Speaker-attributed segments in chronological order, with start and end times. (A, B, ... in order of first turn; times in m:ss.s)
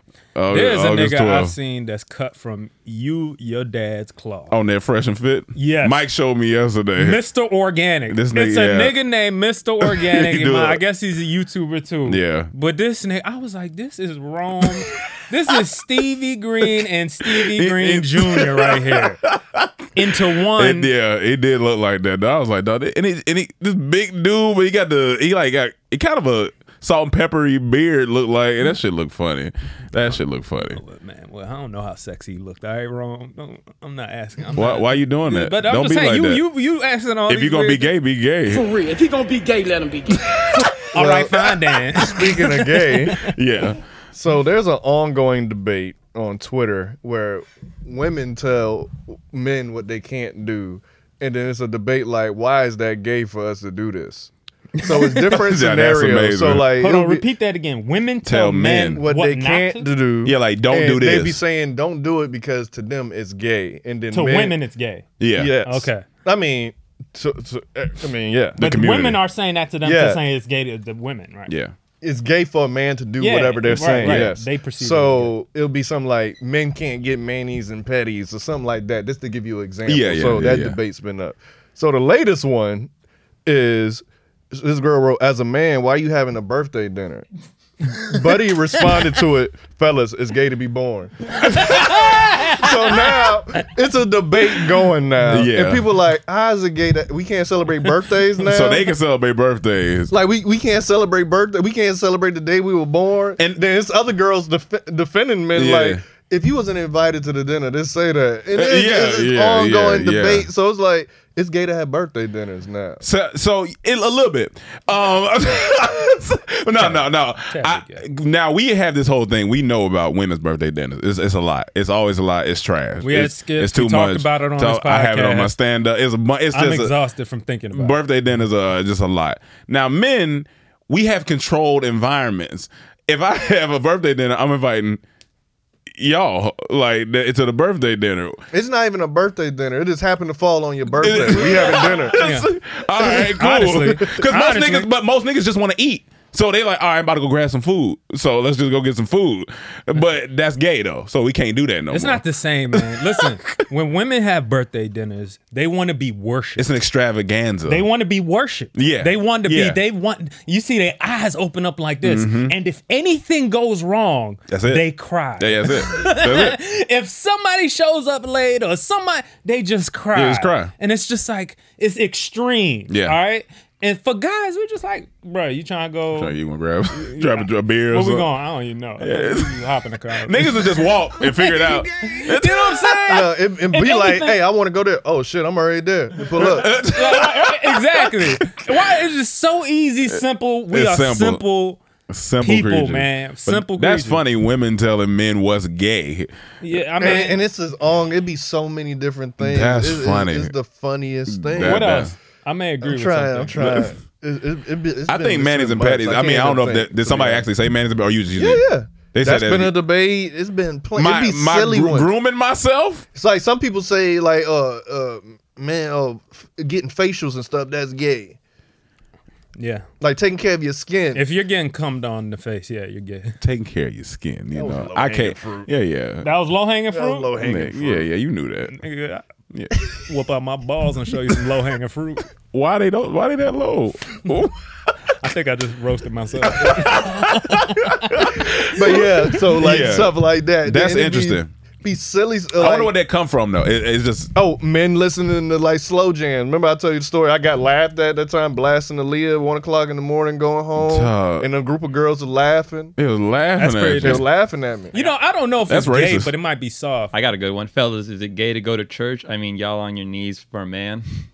0:00.4-0:01.5 A
0:00.5-0:04.6 B
0:04.5-0:07.2 A
0:05.6-0:06.0 B
0:07.0-0:19.2 B
0:08.1-0:09.0 A
0:09.8-0:10.8 A
0:12.1-0:12.5 A
0:16.8-0:30.8 A
0:20.0-0:20.9 B
0:30.7-0:37.9 B
0:34.6-0:36.4 A
0:37.3-0:38.7 A
0:38.5-0:40.5 C
0:40.3-0:40.7 A
0:40.9-0:43.3 B
0:40.9-0:43.3 D
0:43.2-0:43.8 A
0:44.1-0:57.2 D
0:55.0-0:55.3 B
0:55.3-0:56.7 A
0:56.8-0:59.9 B
0:58.2-0:59.0 A
0:59.0-1:04.6 D
1:00.2-1:01.4 A
1:04.1-1:05.1 B
1:05.2-1:05.6 A
1:05.4-1:08.6 D
1:05.6-1:06.0 B
1:08.6-1:09.2 A
1:08.6-1:11.5 B
1:09.8-1:10.2 D
1:11.5-1:11.8 A
1:12.0-1:22.9 D
1:13.2-1:15.3 B
1:13.9-1:14.4 A
1:19.8-1:20.8 A
1:23.5-1:27.3 D
1:28.0-1:38.9 D
1:31.6-1:33.3 B
1:35.3-1:35.9 A
1:38.4-1:40.1 A
1:40.1-1:53.0 D
1:45.5-1:46.0 A
1:48.5-1:50.5 A
1:53.0-2:06.9 A
1:56.8-1:58.0 B
2:03.0-2:05.5 B
2:06.5-2:08.0 B
2:07.7-2:15.0 A
2:16.0-2:18.4 A
2:18.5-2:22.2 D
2:21.0-2:33.3 A
2:21.8-2:22.5 B
2:23.1-2:24.9 B
2:31.9-2:36.7 B
2:36.6-2:37.9 A
2:37.7-2:56.3 B
2:38.8-2:39.8 A
2:42.0-2:42.6 A
2:44.5-2:44.8 A
2:45.4-2:46.6 A
2:50.1-2:50.7 A
2:52.9-2:53.2 A
2:56.1-2:58.3 A
2:57.0-3:04.4 B
2:59.0-2:59.6 A
3:00.2-3:03.3 A
3:03.1-3:06.7 D
3:06.4-3:08.7 A
3:06.9-3:11.8 B
3:10.7-3:11.4 A
3:12.1-3:16.3 A
3:12.4-3:14.2 B
3:16.6-3:17.4 B
3:17.0-3:22.1 D
3:19.4-3:20.5 A
3:21.3-3:22.1 A
3:21.6-3:23.9 B
3:22.8-3:27.5 D
3:23.6-3:23.9 A
3:25.1-3:29.8 A
3:28.4-3:32.1 D
3:31.0-3:33.1 A
3:33.2-3:38.4 D
3:39.6-3:39.9 B
3:40.0-3:41.2 D
3:41.1-3:43.4 B
3:43.4-3:46.3 A
3:44.5-3:45.7 D
3:46.2-3:47.3 B
3:46.9-3:48.1 D
3:47.4-3:48.8 A
3:48.7-3:49.2 B
3:49.5-3:49.8 A
3:50.0-3:52.3 B
3:52.5-3:54.6 A
3:55.2-3:58.4 B
3:56.4-4:01.5 A
3:58.7-4:02.9 D
4:02.6-4:04.3 A
4:04.4-4:12.9 D
4:10.8-4:11.5 A
4:13.0-4:14.2 A
4:13.6-4:14.3 B
4:14.0-4:14.9 D
4:14.9-4:17.1 B
4:15.7-4:16.3 A
4:17.1-4:21.1 E